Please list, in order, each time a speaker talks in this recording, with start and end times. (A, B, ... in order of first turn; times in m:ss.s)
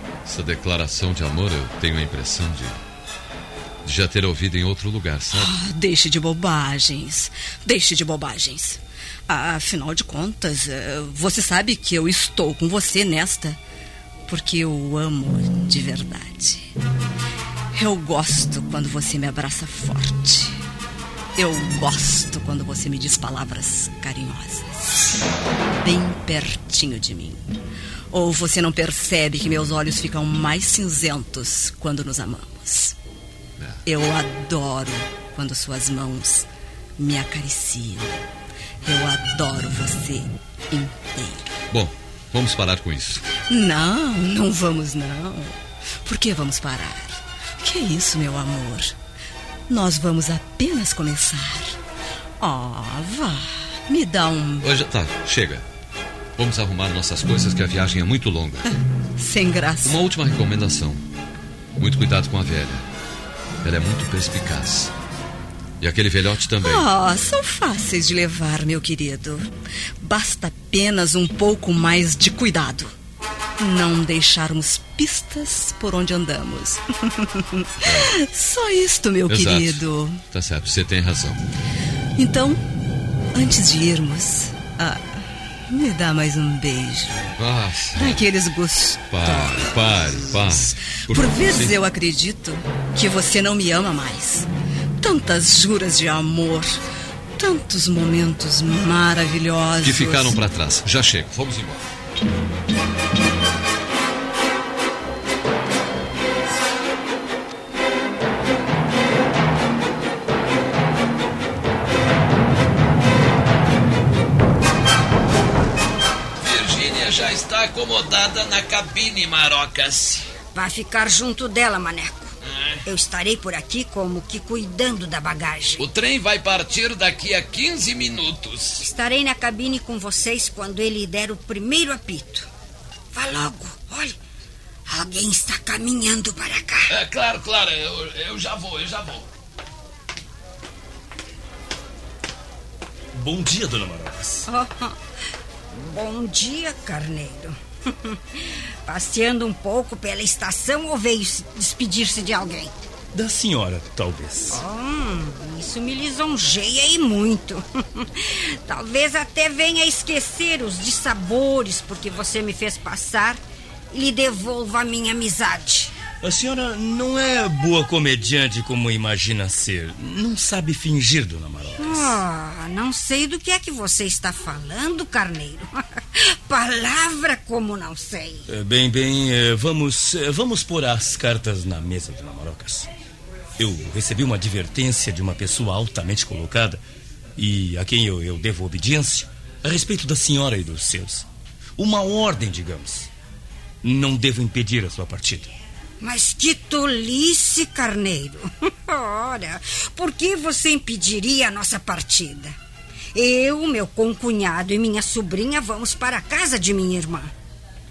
0:00.2-0:02.8 A
0:03.8-0:05.5 A
0:05.3-0:13.6 B
0:14.3-0:16.7 B
0:17.7-0:20.6 B
0:21.4-0:25.2 B
0:25.8-0:27.4 B
0:28.1-0:33.0 B
0:33.8-0:36.5 B
0:37.0-0:38.2 B
0:38.8-0:41.6 B
0:41.7-0:43.2 A
0:43.5-0:48.9 B
0:49.7-0:51.8 B
0:52.4-0:54.7 B
0:54.6-0:55.6 A
0:56.4-0:58.6 A
0:58.6-1:00.0 B
0:59.8-1:01.0 A
1:01.8-1:02.8 A
1:03.6-1:04.9 A
1:05.8-1:06.8 A
1:06.6-1:09.5 B
1:10.0-1:12.9 B
1:13.6-1:20.2 B
1:17.8-1:18.1 A
1:19.3-1:21.4 A
1:22.2-1:22.6 B
1:23.3-1:27.3 B
1:27.4-1:28.2 A
1:28.0-1:34.5 B
1:29.1-1:31.7 A
1:35.0-1:36.8 B
1:37.4-1:40.4 B
1:39.8-1:41.8 A
1:56.4-2:00.3 C
2:00.5-2:02.3 D
2:02.4-2:02.8 C
2:02.8-2:05.8 D
2:05.8-2:08.8 C
2:08.8-2:12.5 D
2:13.1-2:14.2 D
2:14.9-2:16.9 D
2:16.9-2:19.3 C
2:23.1-2:24.5 E
2:24.5-2:25.0 D
2:25.8-2:32.8 D
2:33.1-2:34.6 E
2:34.5-2:45.9 D
2:46.2-2:52.2 E
2:51.8-2:58.4 D
2:58.5-3:02.9 E
3:03.6-3:06.8 E
3:07.4-3:11.2 E
3:11.8-3:13.1 E
3:13.8-3:15.5 E
3:16.0-3:22.6 D
3:23.1-3:27.3 D